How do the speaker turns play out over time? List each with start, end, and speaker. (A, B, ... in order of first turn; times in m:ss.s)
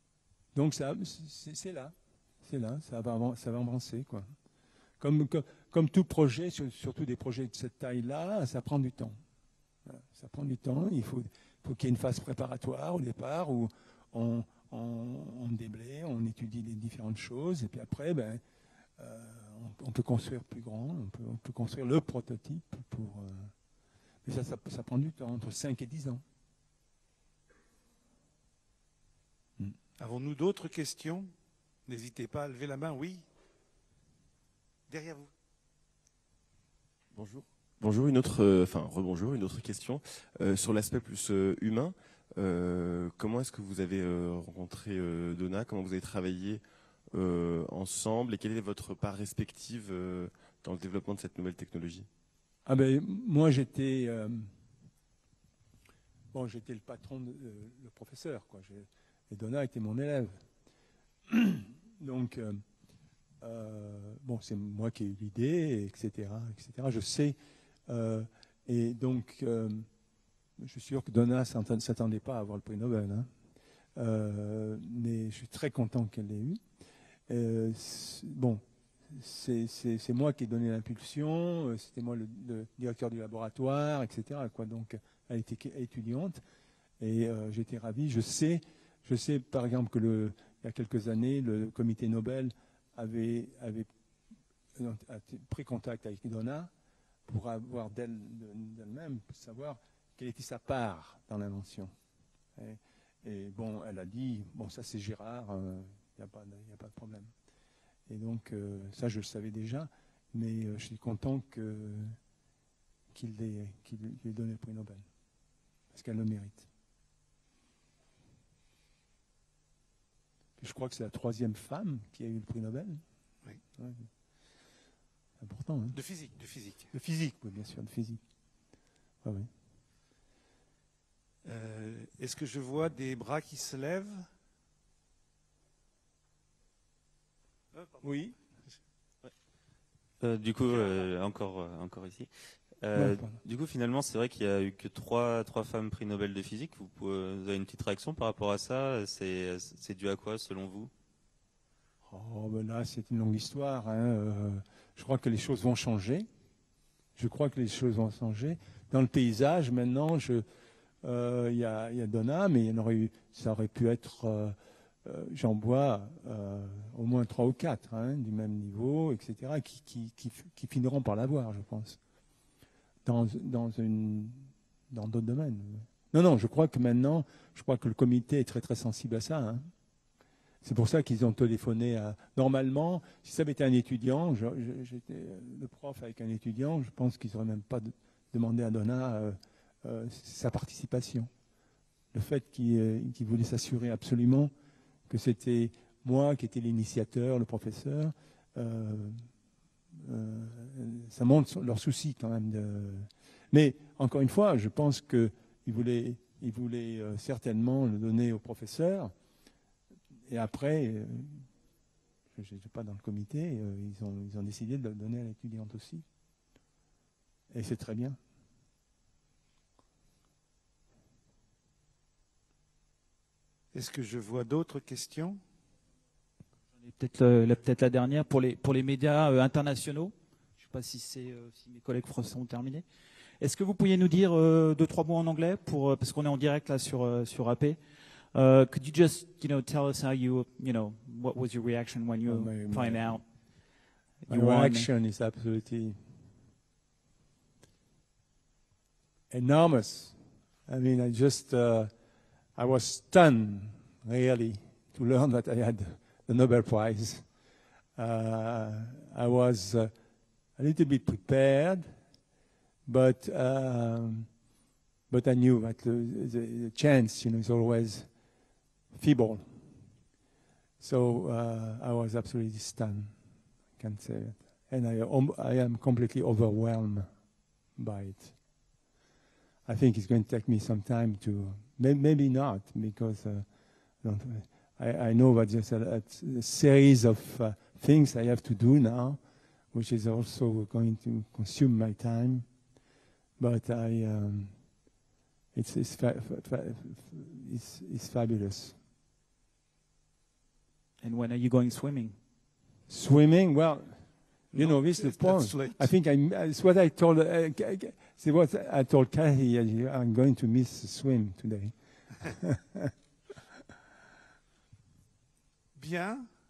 0:00.6-0:04.3 A
0:05.0-0:09.2 A
0:09.9-0:18.4 A
0:19.0-0:23.5 A
0:24.2-0:26.2 A
0:30.0-0:31.3 B
0:31.9-0:33.2 B
0:34.9-0:35.3 B
0:37.1-0:46.6 C
0:47.1-0:52.1 C
0:52.7-0:54.5 A
0:56.3-1:00.3 A
1:01.3-1:02.6 A
1:03.4-1:07.4 A
1:07.9-1:09.9 A
1:10.6-1:13.3 A
1:14.0-1:16.6 A
1:17.3-1:26.4 A
1:27.0-1:33.9 A
1:34.8-1:36.7 A
1:37.3-1:41.9 A
1:42.6-1:47.3 A
1:48.1-1:52.2 A
1:53.1-1:55.0 A
1:55.9-1:56.7 A
2:00.6-2:03.0 A
2:03.8-2:04.1 A
2:05.4-2:06.0 A
2:05.9-2:06.9 B
2:06.9-2:08.2 A
2:09.2-2:09.5 A
2:11.4-2:14.3 B
2:17.7-2:18.1 B
2:18.0-2:18.4 A
2:20.2-2:22.3 D
2:20.7-2:21.1 B
2:22.8-2:30.9 D
2:23.0-2:23.4 A
2:32.1-2:36.3 A
2:37.2-2:40.4 A
2:41.0-2:52.0 A
2:53.0-2:59.7 A
3:00.6-3:11.3 A
3:12.1-3:14.5 A
3:15.1-3:19.2 A
3:20.0-3:29.1 A
3:30.3-3:31.4 A
3:32.4-3:36.0 A
3:37.5-3:38.2 A
3:43.7-3:45.4 B
3:46.8-3:52.8 E
3:53.4-3:57.8 E
3:58.3-4:03.2 E
4:02.3-4:03.2 A
4:04.2-4:04.9 E
4:04.3-4:06.0 A
4:09.3-4:10.2 A
4:10.7-4:11.9 A
4:12.6-4:17.2 A
4:18.0-4:19.9 A
4:20.6-4:21.9 A
4:22.9-4:24.3 A
4:25.1-4:28.1 A
4:28.9-4:29.7 A
4:30.8-4:33.1 A
4:33.8-4:37.1 A
4:37.8-4:38.4 A
4:39.7-4:43.4 A
4:44.0-4:49.2 A
4:49.7-4:52.4 A
4:53.4-4:54.5 A
4:55.6-4:58.8 A
5:01.0-5:02.2 E
5:02.9-5:04.0 A
5:04.5-5:05.9 B
5:04.6-5:12.9 A
5:15.8-5:16.3 B